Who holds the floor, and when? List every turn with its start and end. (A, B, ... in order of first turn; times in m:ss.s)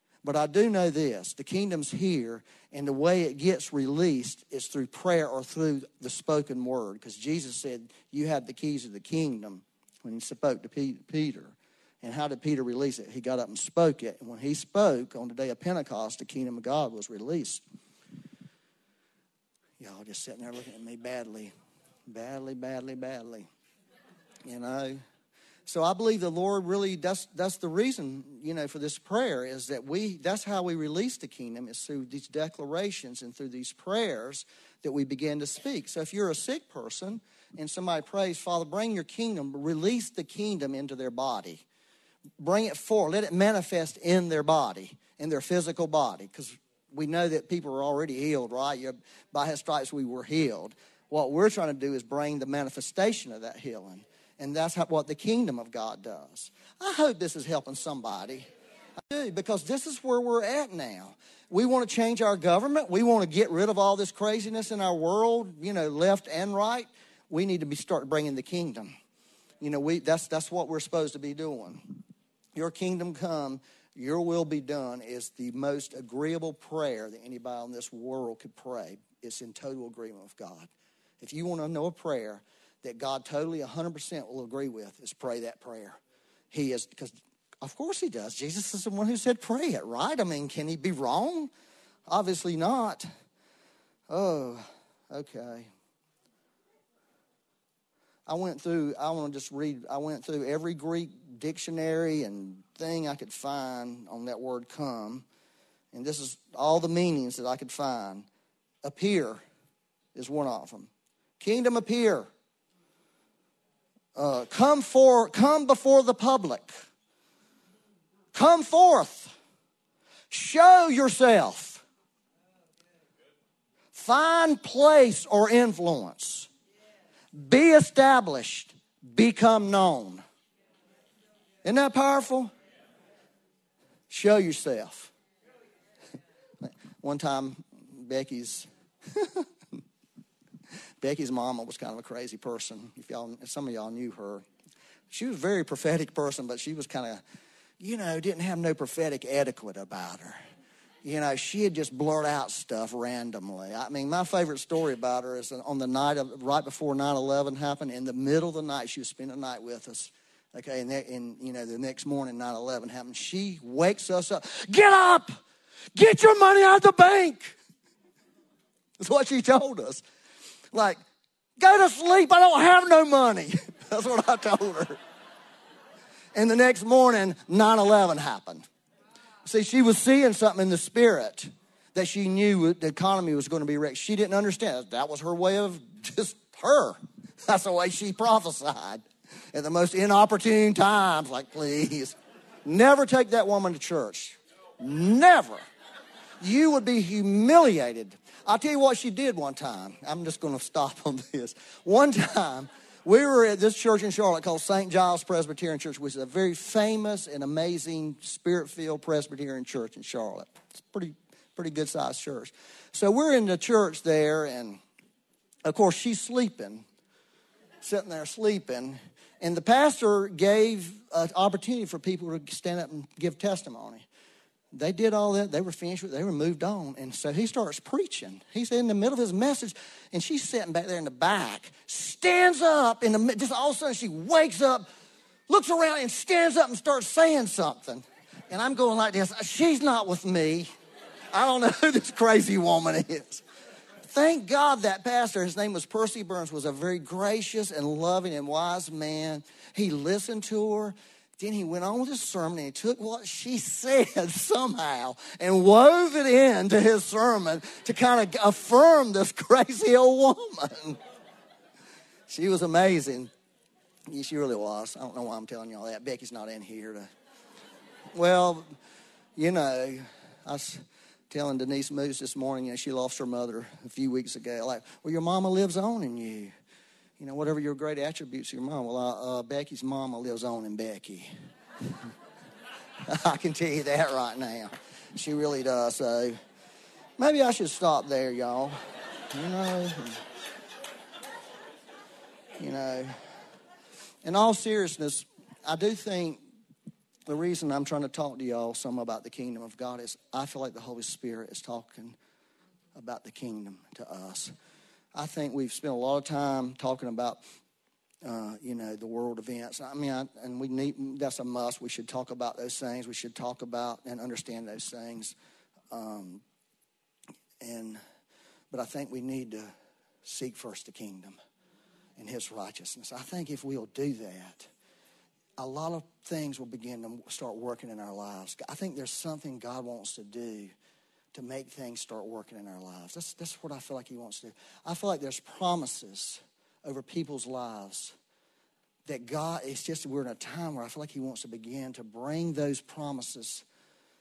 0:00.2-0:17.6 A
0:19.8-0:21.5 A
0:22.1-0:23.5 A
0:24.4-0:25.0 A
0:25.7-0:41.6 A
0:42.4-0:58.5 A
0:59.1-1:09.0 A
1:09.6-1:12.0 A
1:12.6-1:26.0 A
1:26.5-1:31.5 A
1:32.1-1:33.1 A
1:34.1-1:35.7 A
1:38.3-1:45.2 A
1:45.9-1:48.3 A
1:48.8-1:49.4 A
1:50.2-1:52.3 A
1:54.2-1:56.8 A
1:58.3-1:59.4 A
2:00.3-2:01.8 A
2:03.9-2:06.5 A
2:07.3-2:10.2 A
2:11.6-2:12.5 A
2:14.1-2:15.1 A
2:16.6-2:19.5 A
2:21.0-2:24.4 A
2:25.1-2:27.2 A
2:27.8-2:30.4 A
2:31.0-2:45.4 A
2:46.0-2:47.6 A
2:49.0-2:50.0 A
2:50.7-2:51.0 A
2:51.6-2:55.0 A
2:56.3-2:58.7 A
2:59.4-3:15.6 A
3:16.4-3:34.8 A
3:35.6-3:36.8 A
3:37.8-3:44.1 A
3:44.7-3:54.9 A
3:55.5-4:00.7 A
4:01.3-4:03.4 A
4:04.1-4:21.0 A
4:22.3-4:23.3 A
4:24.1-4:27.1 A
4:28.1-4:28.7 A
4:29.4-4:36.5 A
4:37.2-4:41.3 A
4:43.0-4:46.4 A
4:47.2-4:50.2 A
4:52.6-4:53.2 A
4:54.2-4:56.4 A
4:57.3-5:02.2 A
5:03.0-5:04.5 A
5:05.1-5:07.4 A
5:08.2-5:15.4 A
5:15.9-5:16.4 A
5:17.6-5:18.0 A
5:18.7-5:19.7 A
5:20.2-5:21.4 A
5:22.2-5:24.7 A
5:25.6-5:30.7 A
5:31.3-5:38.2 A
5:39.1-5:43.6 A